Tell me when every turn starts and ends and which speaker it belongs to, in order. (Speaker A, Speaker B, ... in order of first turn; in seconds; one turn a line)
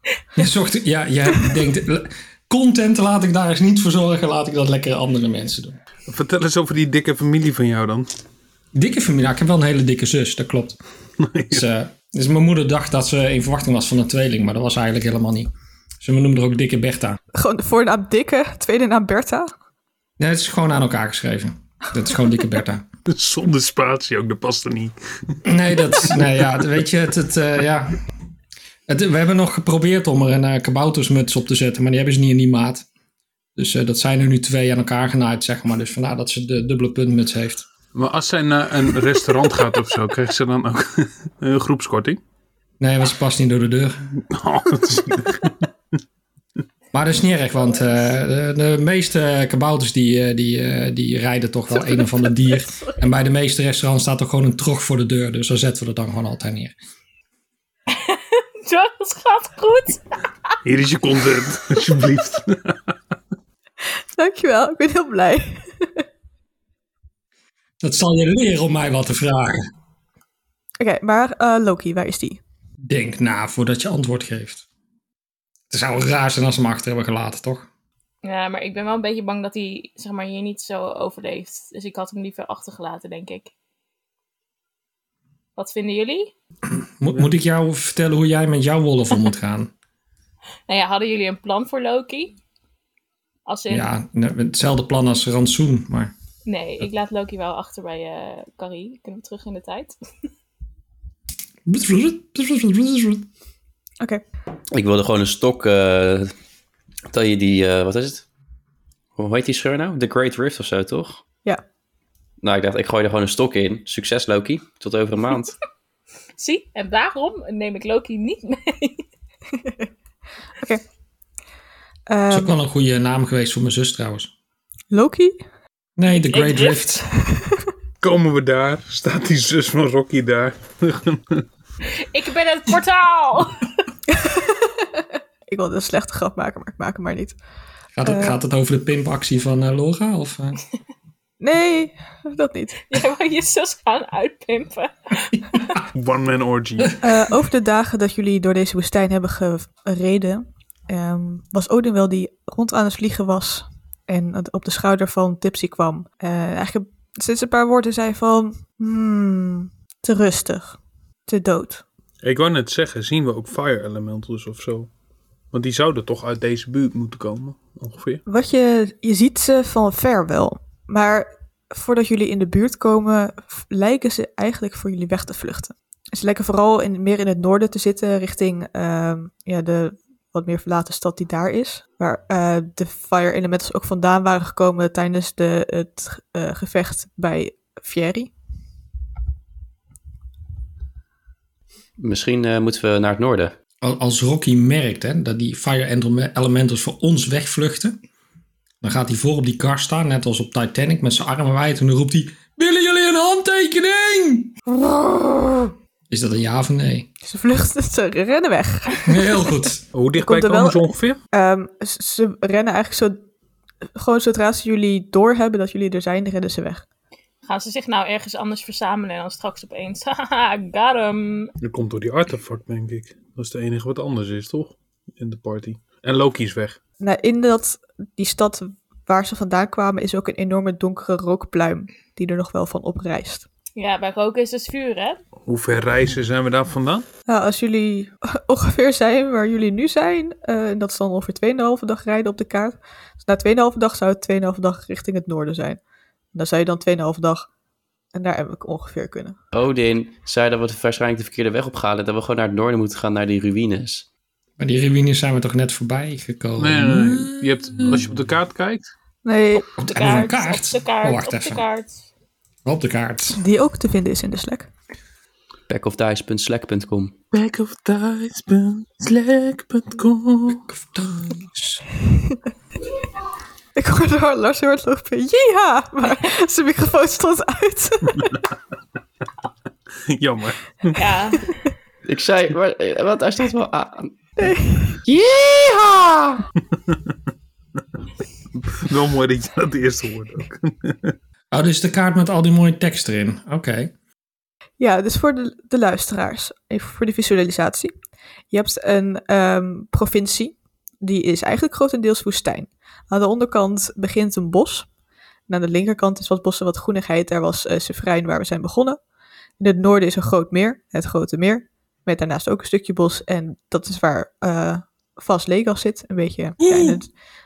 Speaker A: 0.4-5.8
Speaker B: 6.1-8.1
Speaker A: 8.7-10.8
Speaker B: 11.2-11.7
Speaker A: 11.5-17.2
Speaker C: 17.3-19.5
Speaker A: 20.2-22.9
Speaker B: 23.1-25.4
Speaker A: 25.4-28.0
Speaker B: 26.0-26.3
Speaker A: 28.9-32.9
Speaker A: 33.6-37.7
Speaker B: 37.9-42.2
Speaker A: 42.8-44.0
Speaker B: 44.3-45.7
Speaker A: 46.9-56.7
Speaker D: 57.9-60.5
Speaker B: 60.6-63.0
Speaker C: 64.2-66.0
Speaker A: 67.8-69.6
Speaker C: 70.8-72.4
Speaker A: 72.8-74.7
Speaker A: 75.7-77.7
Speaker D: 78.2-83.5
Speaker D: 85.6-86.3
Speaker A: 86.7-89.7
Speaker D: 90.7-92.3
Speaker D: 93.5-93.9
Speaker A: 93.7-96.1
Speaker D: 96.5-100.0
Speaker A: 101.7-103.3
Speaker E: 104.7-106.3
Speaker E: 107.1-108.2
Speaker E: 109.2-111.2
Speaker E: 112.4-115.5
Speaker D: 116.4-119.0
Speaker C: 119.6-119.8
Speaker C: 120.6-120.8
Speaker C: 122.1-122.6
Speaker A: 122.3-124.3
Speaker C: 124.9-125.4
Speaker A: 126.0-127.1
Speaker D: 126.1-127.1
Speaker C: 127.2-127.6
Speaker B: 128.0-131.4
Speaker D: 132.1-133.8
Speaker C: 134.1-134.9
Speaker C: 135.5-137.4
Speaker A: 137.9-140.6
Speaker C: 138.1-138.4
Speaker C: 141.4-142.8
Speaker D: 142.8-145.4
Speaker A: 145.6-145.8
Speaker B: 145.9-147.0
Speaker C: 147.0-161.8
Speaker B: 162.2-164.9
Speaker B: 165.5-168.2
Speaker C: 168.3-188.3
Speaker E: 192.0-193.6
Speaker A: 193.8-198.0
Speaker A: 198.8-204.7
Speaker A: 206.1-207.1
Speaker C: 207.2-209.2
Speaker A: 209.1-209.8
Speaker B: 209.9-211.2
Speaker C: 210.2-213.2
Speaker C: 213.9-216.8
Speaker D: 217.4-221.5
Speaker B: 221.6-226.8
Speaker C: 227.0-233.5
Speaker D: 233.8-235.2
Speaker B: 235.5-237.1
Speaker C: 237.3-245.8
Speaker C: 246.3-247.5
Speaker C: 248.1-249.4
Speaker E: 249.5-254.1
Speaker A: 254.6-258.2
Speaker B: 256.6-258.9
Speaker C: 259.2-259.7
Speaker A: 259.8-261.6
Speaker D: 259.9-262.0
Speaker A: 262.6-263.4
Speaker C: 263.4-264.7
Speaker E: 265.7-267.1
Speaker B: 267.3-270.7
Speaker A: 270.6-271.9
Speaker C: 273.8-278.4
Speaker B: 280.1-281.1
Speaker D: 280.9-281.7
Speaker E: 282.1-286.4
Speaker C: 284.4-285.0
Speaker B: 288.6-291.1
Speaker A: 291.5-293.9
Speaker C: 294.8-297.9
Speaker C: 298.5-304.9
Speaker C: 305.5-309.0
Speaker C: 309.6-317.1
Speaker A: 316.6-317.0